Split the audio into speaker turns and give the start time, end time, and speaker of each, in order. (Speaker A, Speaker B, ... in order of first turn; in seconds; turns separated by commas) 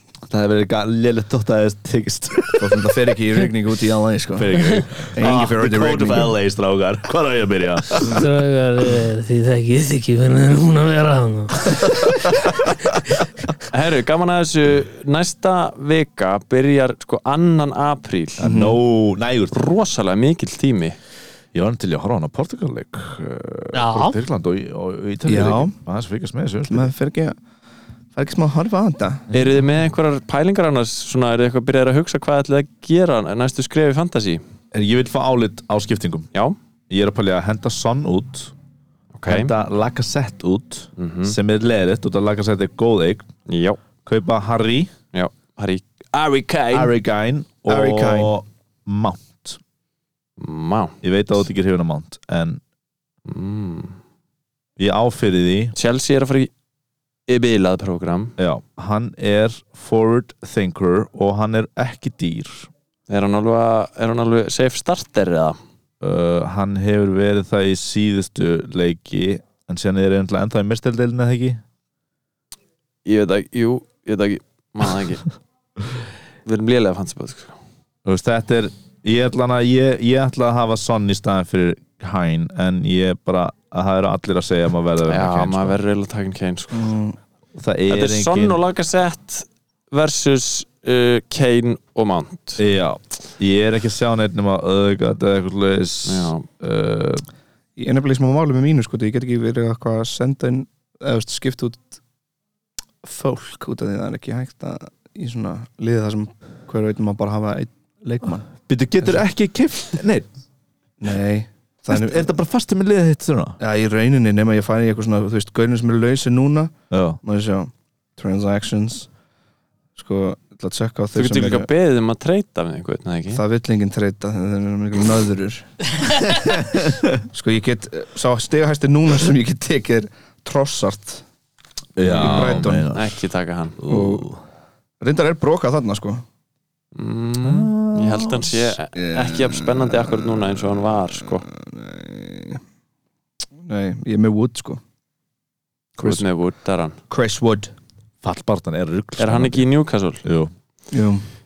Speaker A: 0.3-2.9, Speaker B: 2.6-6.3, Speaker A: 4.3-8.2, Speaker C: 8.0-11.9, Speaker A: 11.7-12.9, Speaker D: 13.7-18.4, Speaker A: 18.4-19.6, Speaker B: 18.4-18.8, Speaker D: 19.5-21.0, Speaker A: 21.5-26.9, Speaker C: 23.7-24.2, Speaker B: 25.3-25.7, Speaker B: 26.7-27.4, Speaker B: 28.1-29.2, Speaker A: 29.3-29.6, Speaker D: 29.3-34.4, Speaker A: 34.7-36.3, Speaker A: 36.9-38.5, Speaker D: 39.2-39.5, Speaker A: 39.3-43.3, Speaker D: 41.0-41.4, Speaker D: 43.5-43.8, Speaker A: 44.1-44.9, Speaker D: 45.1-46.9, Speaker A: 46.7-49.6, Speaker B: 47.7-48.3, Speaker D: 50.4-51.0, Speaker A: 51.0-52.6, Speaker D: 53.3-54.0, Speaker A: 54.8-55.8, Speaker D: 55.8-56.5, Speaker D: 57.3-58.4, Speaker A: 58.4-62.7, Speaker D: 63.1-65.6, Speaker A: 66.0-71.6, Speaker D: 73.0-75.2, Speaker D: 76.5-77.6, Speaker A: 78.0-85.8, Speaker D: 85.1-86.9, Speaker B: 86.7-87.2, Speaker A: 87.5-88.6, Speaker D: 87.9-92.6, Speaker A: 92.6-97.2, Speaker D: 96.1-96.5, Speaker B: 97.8-102.0, Speaker B: 103.0-108.5, Speaker A: 108.7-110.3, Speaker B: 111.0-112.3, Speaker A: 111.9-113.6, Speaker B: 113.6-119.1, Speaker A: 116.9-117.2, Speaker B: 120.0-121.7, Speaker D: 121.2-123.4, Speaker B: 123.3-125.9, Speaker A: 126.3-127.2, Speaker B: 127.3-131.2, Speaker A: 132.0-133.2, Speaker D: 132.0-133.8, Speaker B: 132.2-132.9, Speaker A: 133.8-134.4, Speaker B: 133.9-134.3, Speaker B: 135.0-136.2, Speaker D: 136.9-141.5, Speaker A: 137.4-138.8, Speaker B: 138.9-140.4, Speaker B: 141.3-142.6, Speaker B: 143.7-144.8, Speaker D: 146.0-147.0, Speaker B: 147.1-147.7, Speaker A: 148.2-149.7, Speaker D: 149.2-150.2, Speaker A: 150.2-150.5, Speaker B: 150.9-151.2